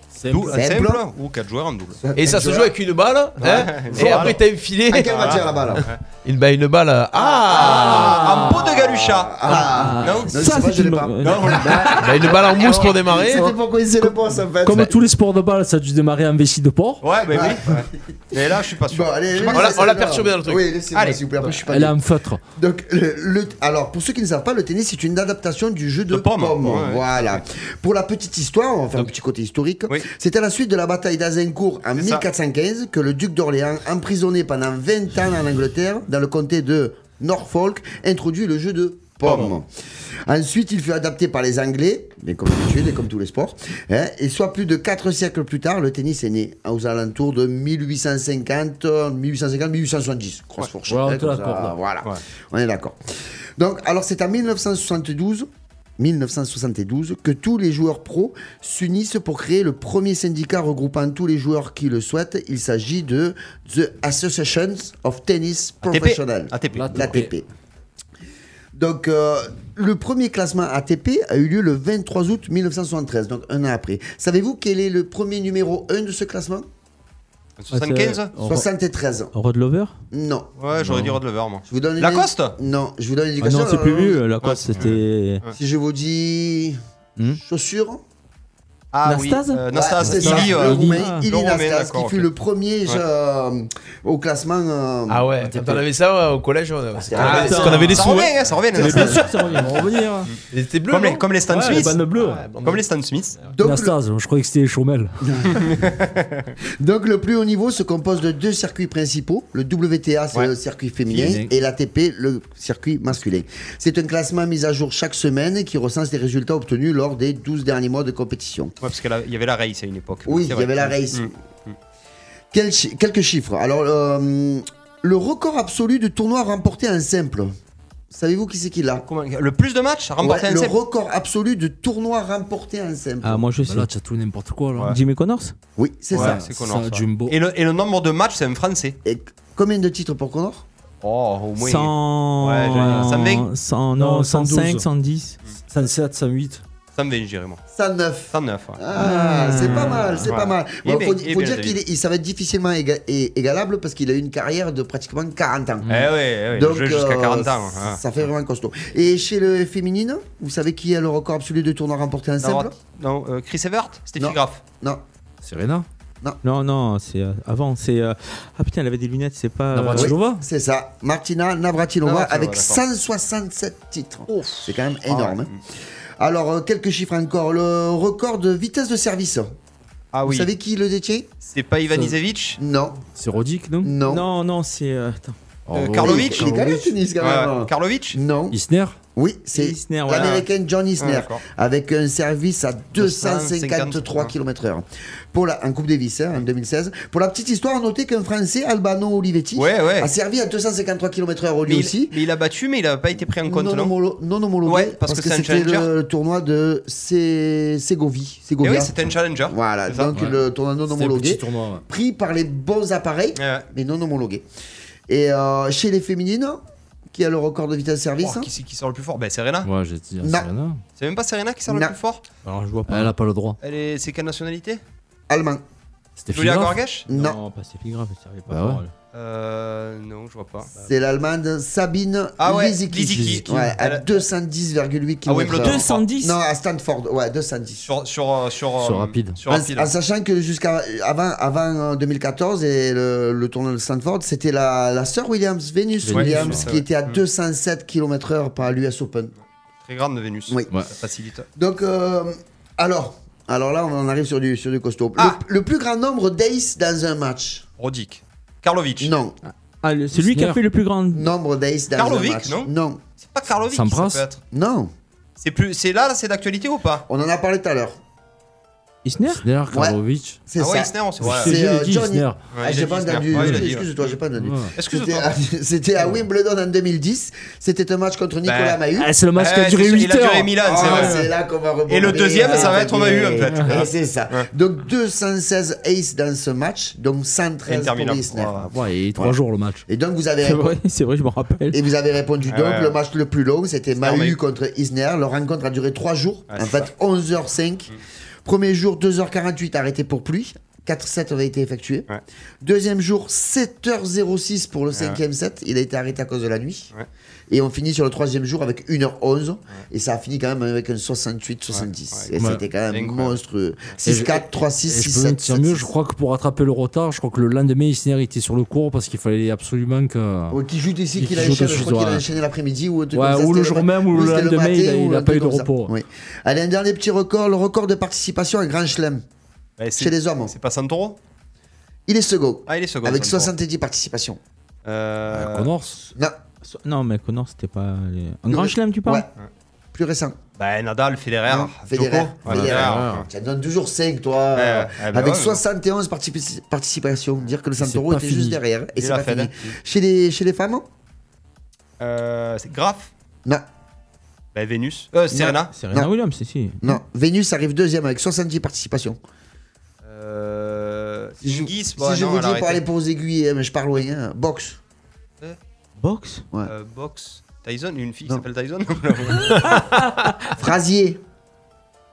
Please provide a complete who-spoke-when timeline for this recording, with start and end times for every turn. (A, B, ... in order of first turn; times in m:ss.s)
0:00.2-0:00.6 A
0:00.3-0:02.0 B
0:00.5-0:01.0 C
0:02.0-0:02.7 C
0:02.2-0:05.4 D
0:03.4-0:04.4 B
0:04.9-0:05.9 C
0:05.0-0:06.0 B
0:06.2-0:08.3 D
0:07.4-0:12.0 C
0:07.5-0:10.3 B
0:07.6-0:08.5 A
0:09.7-0:10.2 A
0:10.3-0:11.9 E
0:11.2-0:13.2 B
0:11.9-0:13.5 D
0:12.8-0:15.0 C
0:13.4-0:14.1 A
0:14.6-0:17.0 A
0:17.0-0:19.8 B
0:17.3-0:17.8 C
0:18.3-0:22.0 C
0:19.5-0:20.6 D
0:20.9-0:21.2 B
0:21.4-0:22.4 A
0:22.6-0:39.7 C
0:26.1-0:27.4 B
0:32.0-0:32.3 B
0:39.2-0:39.6 B
0:40.3-0:53.0 C
0:50.9-0:51.8 A
0:53.6-1:07.5 C
1:05.8-1:07.2 B
1:06.7-1:07.3 A
1:08.7-1:16.7 C
1:17.6-1:18.3 B
1:17.7-1:18.7 E
1:18.4-1:19.3 C
1:19.3-1:20.0 E
1:20.1-1:20.5 C
1:20.6-1:22.6 B
1:20.8-1:21.2 E
1:21.7-1:24.3 C
1:23.4-1:25.4 E
1:24.4-1:25.6 B
1:25.5-1:26.8 C
1:27.3-1:28.0 C
1:28.9-1:32.3 B
1:29.0-1:31.2 E
1:29.7-1:35.3 C
1:35.1-1:39.2 D
1:35.4-1:35.8 A
1:37.0-1:37.8 C
1:37.2-1:39.9 E
1:37.7-1:38.0 A
1:37.9-1:39.2 B
1:38.8-1:40.3 A
1:38.9-1:39.2 C
1:40.5-1:42.8 D
1:40.9-1:42.0 B
1:41.5-1:42.5 A
1:42.6-1:43.4 B
1:43.5-1:44.0 C
1:43.6-1:45.2 A
1:45.2-1:45.7 C
1:45.6-1:46.5 B
1:46.8-1:58.8 C
1:51.1-1:51.5 A
1:58.8-2:01.8 B
2:00.3-2:01.3 C
2:02.5-2:07.5 C
2:08.1-2:09.1 C
2:09.0-2:10.8 B
2:10.2-2:13.5 C
2:13.2-2:13.9 E
2:13.6-2:14.9 A
2:14.9-2:15.6 E
2:15.8-2:16.4 C
2:16.1-2:17.3 A
2:16.1-2:19.0 B
2:19.0-2:20.7 C
2:21.0-2:23.5 B
2:21.6-2:25.4 E
2:22.8-2:23.2 A
2:24.0-2:24.9 A
2:25.7-2:26.6 A
2:27.0-2:27.6 B
2:27.7-2:42.7 C
2:28.3-2:28.8 B
2:29.0-2:30.3 E
2:29.6-2:30.3 A
2:30.3-2:31.8 B
2:35.9-2:38.0 B
2:42.4-2:44.6 B
2:44.2-2:45.0 C
2:45.4-2:45.9 A
2:46.4-2:50.1 E
2:49.7-2:50.4 A
2:50.0-2:55.5 C
2:52.0-2:52.8 B
2:54.3-2:54.6 A
2:55.1-2:55.6 B
2:56.2-2:59.6 C
3:00.1-3:00.5 B
3:00.2-3:01.3 C
3:01.4-3:02.6 B
3:02.6-3:03.0 C
3:03.2-3:03.9 A
3:03.8-3:04.3 C
3:04.1-3:05.4 E
3:05.7-3:06.9 A
3:05.7-3:06.5 B
3:06.0-3:08.6 C
3:07.2-3:08.2 B
3:08.5-3:09.0 A
3:09.2-3:22.2 C
3:09.5-3:10.4 E
3:10.1-3:10.4 B
3:11.0-3:11.4 B
3:13.0-3:14.3 B
3:19.6-3:20.1 B
3:21.7-3:23.9 B
3:23.4-3:34.4 C
3:24.6-3:25.9 B
3:28.6-3:30.2 B
3:30.1-3:31.8 A
3:33.4-3:33.7 B
3:35.1-3:38.5 C
3:38.2-3:39.7 B
3:39.6-3:40.8 A
3:40.2-3:40.5 C
3:41.0-3:42.2 B
3:41.7-3:42.0 C
3:42.4-3:43.1 E
3:42.9-3:43.6 A
3:43.6-3:44.8 B
3:45.3-3:45.6 C
3:46.2-3:46.8 A
3:46.3-3:47.1 B
3:47.1-3:47.4 C
3:47.1-3:48.9 E
3:48.5-3:48.8 A
3:49.1-3:50.7 B
3:50.8-3:57.9 C
3:52.4-3:54.2 B
3:53.5-3:53.7 A
3:55.3-3:56.1 B
3:55.5-3:56.4 E
3:57.8-3:59.9 B
3:58.8-3:59.4 A
3:59.5-4:09.3 C
4:06.0-4:06.7 A
4:06.1-4:07.2 B
4:09.8-4:11.5 B
4:11.6-4:17.6 C
4:17.8-4:19.1 B
4:19.0-4:19.4 C
4:19.5-4:21.3 E
4:20.1-4:20.6 A
4:21.1-4:23.0 C
4:22.0-4:24.4 B
4:23.7-4:24.2 A
4:24.5-4:24.9 C
4:25.4-4:27.0 B
4:27.1-4:28.0 C
4:29.0-4:29.4 E
4:29.2-4:30.4 A
4:29.7-4:39.2 C
4:30.6-4:31.6 B
4:31.2-4:32.4 A
4:32.5-4:34.2 B
4:33.3-4:33.7 A
4:34.4-4:34.7 A
4:34.8-4:35.3 B
4:38.4-4:38.8 B
4:39.0-4:41.3 A
4:39.4-4:41.2 B
4:40.6-4:50.8 C
4:41.9-4:44.5 B
4:47.7-4:48.7 B
4:48.7-4:49.8 A
4:50.4-4:51.8 E
4:51.7-4:57.9 C
4:52.5-4:53.0 B
4:54.0-4:54.4 B
4:56.5-4:56.9 B
4:58.4-5:02.1 C
5:02.6-5:06.9 C
5:04.9-5:05.2 B
5:07.5-5:15.9 C
5:11.7-5:12.3 B
5:12.4-5:12.6 A
5:12.9-5:13.4 B
5:14.0-5:20.6 A
5:20.5-5:29.2 C
5:21.2-5:22.2 A
5:23.1-5:25.9 A
5:29.8-5:31.2 B
5:30.0-5:30.5 C
5:32.1-5:34.4 C
5:32.7-5:33.5 B
5:34.8-5:35.7 B
5:35.3-5:36.0 A
5:36.1-5:36.4 C
5:36.6-5:39.2 E
5:38.5-5:39.3 C
5:39.9-5:40.4 C
5:40.6-5:43.3 B
5:41.5-5:50.9 C
5:42.6-5:43.1 D
5:44.6-5:45.6 B
5:47.8-5:48.6 A
5:49.0-5:49.7 B
5:52.0-5:53.1 B
5:54.6-5:55.7 B
5:55.3-5:56.1 C
5:55.7-5:57.0 E
5:56.8-5:59.2 C
6:00.0-6:02.8 B
6:01.4-6:04.8 C
6:06.0-6:06.5 E
6:06.7-6:09.5 B
6:09.5-6:10.2 D
6:10.5-6:11.2 C